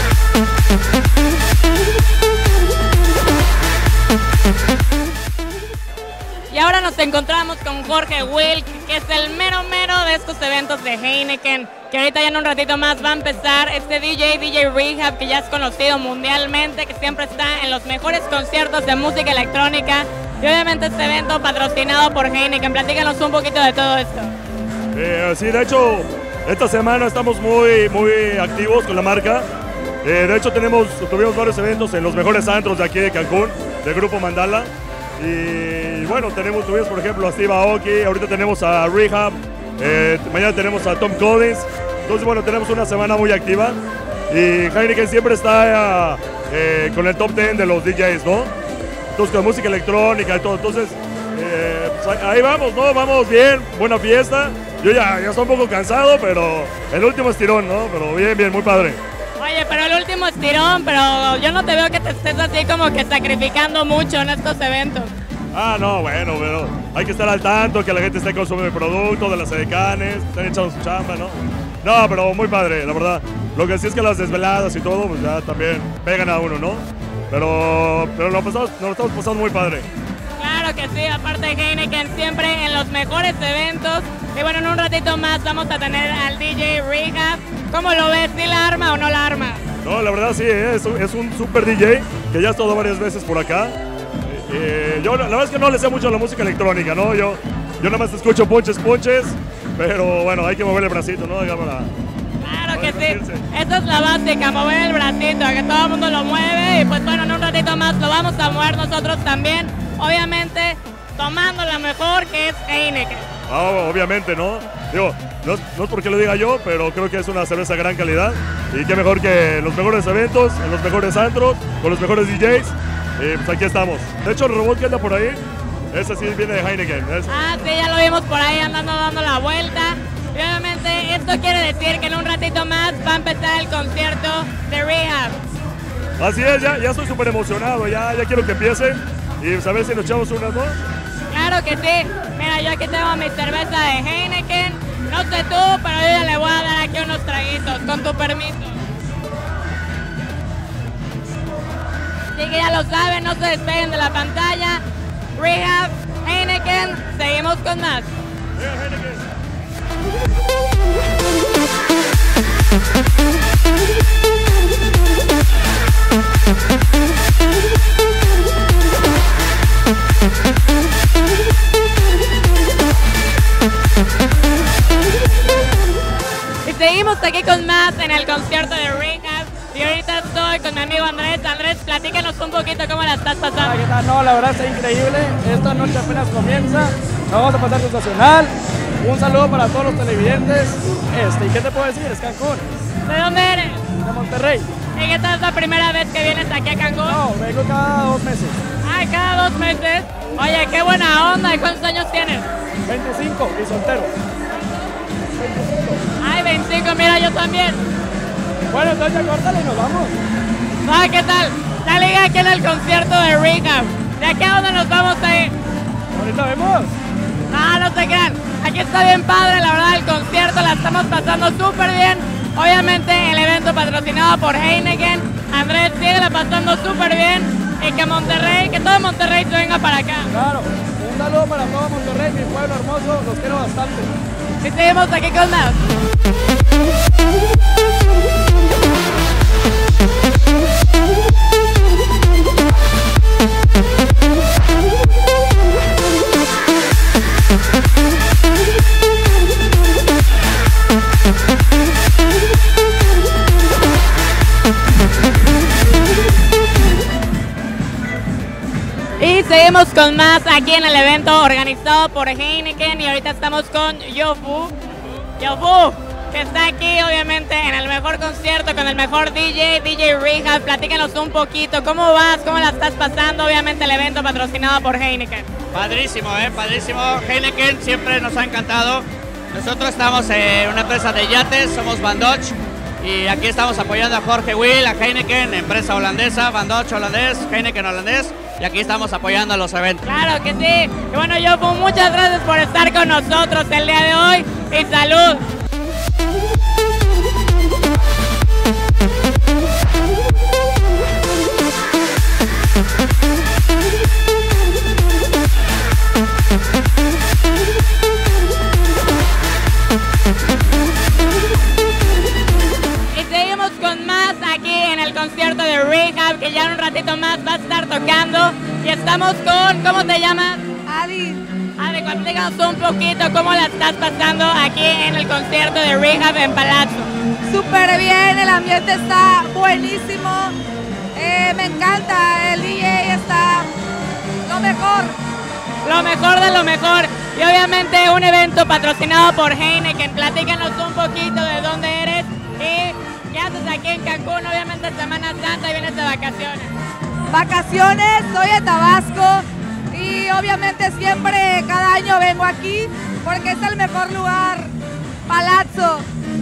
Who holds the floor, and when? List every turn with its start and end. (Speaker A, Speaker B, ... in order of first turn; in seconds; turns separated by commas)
Speaker A: 6.5-24.3, Speaker B: 24.9-29.5, Speaker B: 30.0-43.8, Speaker B: 44.3-48.5, Speaker B: 49.2-59.0, Speaker A: 59.4-65.1, Speaker B: 65.5-79.9, Speaker A: 80.4-89.6, Speaker B: 89.8-101.9, Speaker A: 102.4-113.3, Speaker B: 102.7-103.5, Speaker B: 113.5-125.4, Speaker B: 125.9-127.3, Speaker A: 127.3-135.4, Speaker B: 136.2-140.8, Speaker A: 141.3-148.8, Speaker A: 152.3-154.8, Speaker A: 155.4-158.1, Speaker B: 158.6-159.3, Speaker A: 176.7-183.8, Speaker C: 183.6-192.7, Speaker A: 193.1-193.8, Speaker C: 194.0-194.7, Speaker A: 194.9-197.2, Speaker C: 197.1-198.6, Speaker A: 198.8-202.5, Speaker C: 202.9-204.1, Speaker C: 205.4-206.0, Speaker A: 206.2-207.9, Speaker C: 208.7-210.2, Speaker A: 210.8-215.5, Speaker C: 216.1-217.0, Speaker A: 217.5-230.3, Speaker C: 230.3-234.1, Speaker A: 234.6-235.8, Speaker A: 259.2-264.8, Speaker A: 265.4-275.5, Speaker D: 275.7-290.0, Speaker A: 290.1-295.4, Speaker A: 313.1-320.6, Speaker E: 320.9-321.4, Speaker A: 321.8-327.1, Speaker E: 327.5-330.6, Speaker E: 331.2-333.7, Speaker E: 334.4-335.2, Speaker A: 335.8-346.7, Speaker E: 347.3-354.7, Speaker E: 355.3-356.1